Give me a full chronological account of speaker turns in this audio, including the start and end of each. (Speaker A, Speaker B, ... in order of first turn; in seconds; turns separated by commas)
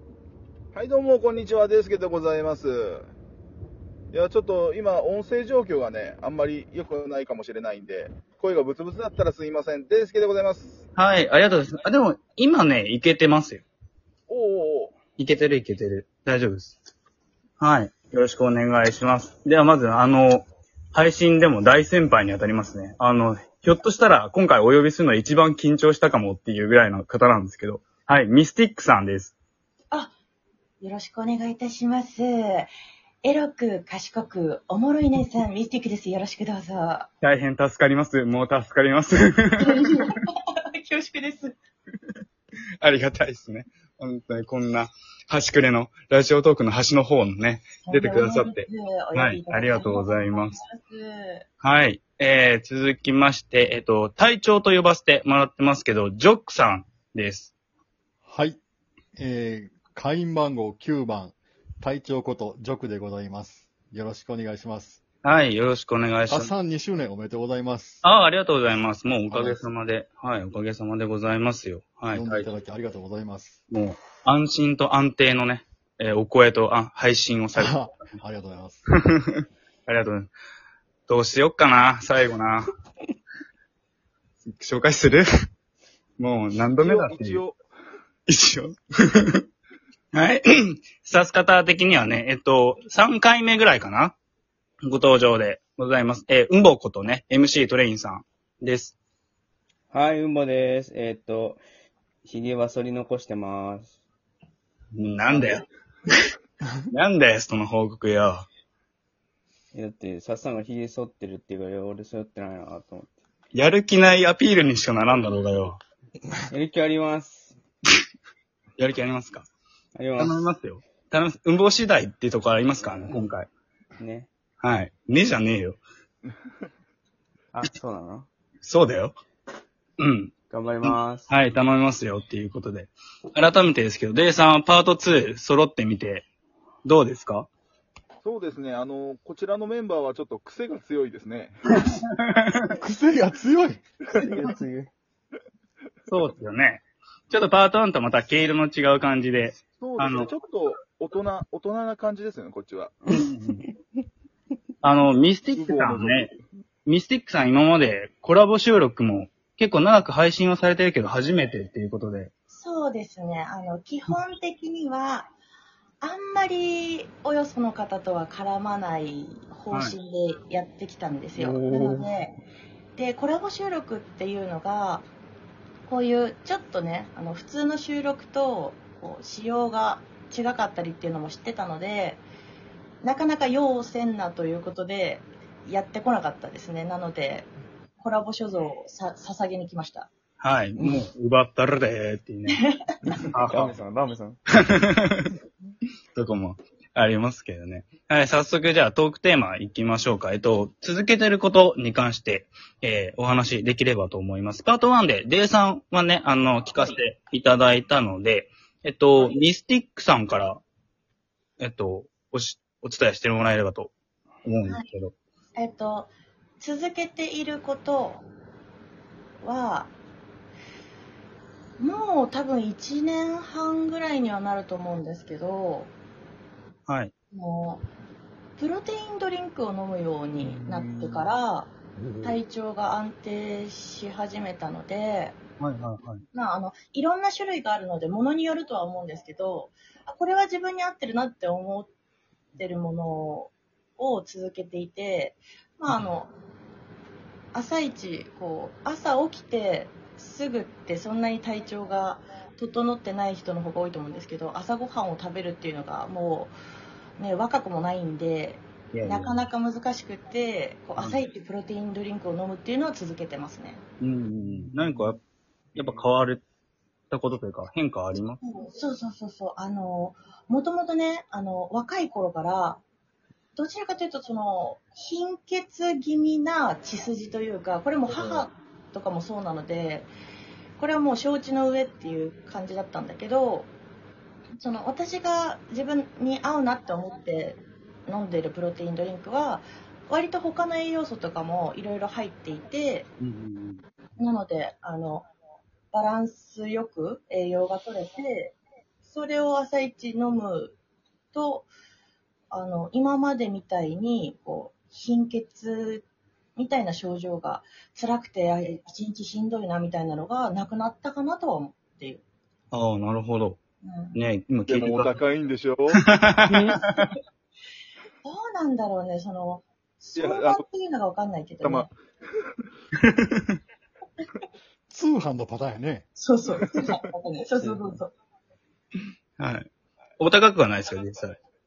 Speaker A: 0.7-3.1, Speaker A: 4.1-10.8, Speaker B: 10.9-13.6, Speaker A: 14.3-14.9, Speaker B: 15.2-16.8, Speaker B: 17.6-29.4, Speaker C: 30.8-32.7, Speaker C: 33.2-37.1, Speaker B: 37.2-40.1, Speaker C: 39.6-40.1, Speaker C: 40.8-41.5, Speaker B: 42.8-50.6, Speaker C: 47.9-51.5, Speaker B: 51.6-57.5, Speaker D: 58.2-58.6, Speaker D: 59.2-65.0, Speaker B: 65.2-66.5, Speaker D: 66.3-68.0, Speaker B: 68.0-72.5, Speaker D: 69.3-69.6, Speaker D: 72.1-73.6, Speaker B: 73.7-77.9, Speaker D: 77.5-78.8, Speaker B: 79.1-80.3, Speaker B: 81.1-82.7, Speaker B: 84.4-85.3, Speaker B: 86.2-87.4, Speaker A: 86.7-87.6, Speaker B: 88.3-89.4, Speaker B: 90.1-94.2, Speaker B: 94.8-99.0, Speaker E: 99.9-101.6, Speaker E: 102.2-103.9, Speaker B: 104.9-105.7, Speaker B: 106.9-108.5, Speaker E: 109.7-113.2, Speaker B: 113.5-115.8, Speaker E: 116.5-117.6, Speaker B: 118.8-119.5, Speaker E: 119.9-120.5, Speaker B: 120.2-123.5, Speaker E: 122.8-123.3, Speaker E: 124.0-124.3, Speaker B: 124.6-125.8, Speaker E: 127.5-128.3, Speaker B: 128.6-129.2, Speaker B: 130.0-130.3, Speaker E: 130.5-131.3, Speaker B: 130.8-136.3, Speaker B: 136.8-137.5, Speaker A: 138.2-141.8, Speaker B: 141.7-142.7, Speaker D: 142.8-143.8, Speaker E: 144.1-144.9, Speaker B: 146.1-150.3, Speaker A: 149.8-153.0, Speaker E: 153.1-153.8, Speaker B: 153.1-153.6, Speaker B: 154.8-156.3, Speaker A: 155.5-156.4, Speaker B: 156.8-162.3, Speaker C: 162.5-165.3, Speaker C: 166.0-172.4, Speaker B: 169.7-170.0, Speaker B: 171.4-172.1, Speaker C: 173.0-175.1, Speaker C: 175.9-182.2, Speaker C: 183.0-187.5, Speaker C: 188.0-190.1, Speaker B: 190.4-192.6, Speaker E: 190.8-191.1, Speaker E: 193.1-194.4, Speaker B: 193.3-193.7, Speaker B: 194.6-195.3, Speaker B: 196.1-210.6, Speaker B: 211.6-213.9, Speaker B: 214.4-215.2, Speaker C: 215.6-218.2, Speaker C: 219.4-219.9, Speaker C: 221.8-225.9, Speaker B: 226.9-227.1, Speaker C: 227.3-227.8, Speaker C: 228.6-235.4, Speaker B: 230.4-231.3, Speaker B: 232.0-232.4, Speaker B: 235.6-236.2, Speaker C: 236.3-241.9, Speaker C: 242.6-246.3, Speaker C: 247.5-256.5, Speaker C: 257.2-263.8, Speaker B: 258.9-259.4, Speaker B: 264.0-265.2, Speaker B: 265.8-266.4, Speaker B: 267.1-268.4, Speaker C: 268.4-272.8, Speaker C: 273.6-280.1, Speaker B: 278.1-278.4, Speaker C: 280.8-283.7, Speaker C: 284.6-293.1, Speaker B: 293.2-293.8, Speaker C: 294.2-295.3, Speaker C: 295.9-300.8, Speaker C: 301.3-301.7, Speaker C: 302.5-306.1, Speaker C: 306.6-312.2, Speaker B: 312.7-313.6, Speaker C: 313.8-314.2, Speaker B: 314.1-315.1, Speaker A: 314.7-316.0, Speaker B: 316.1-317.1, Speaker C: 318.2-321.9, Speaker A: 320.2-320.6, Speaker A: 321.6-321.9, Speaker B: 323.0-323.4, Speaker D: 324.9-326.1, Speaker C: 326.2-328.1, Speaker E: 327.6-328.0, Speaker B: 329.4-331.4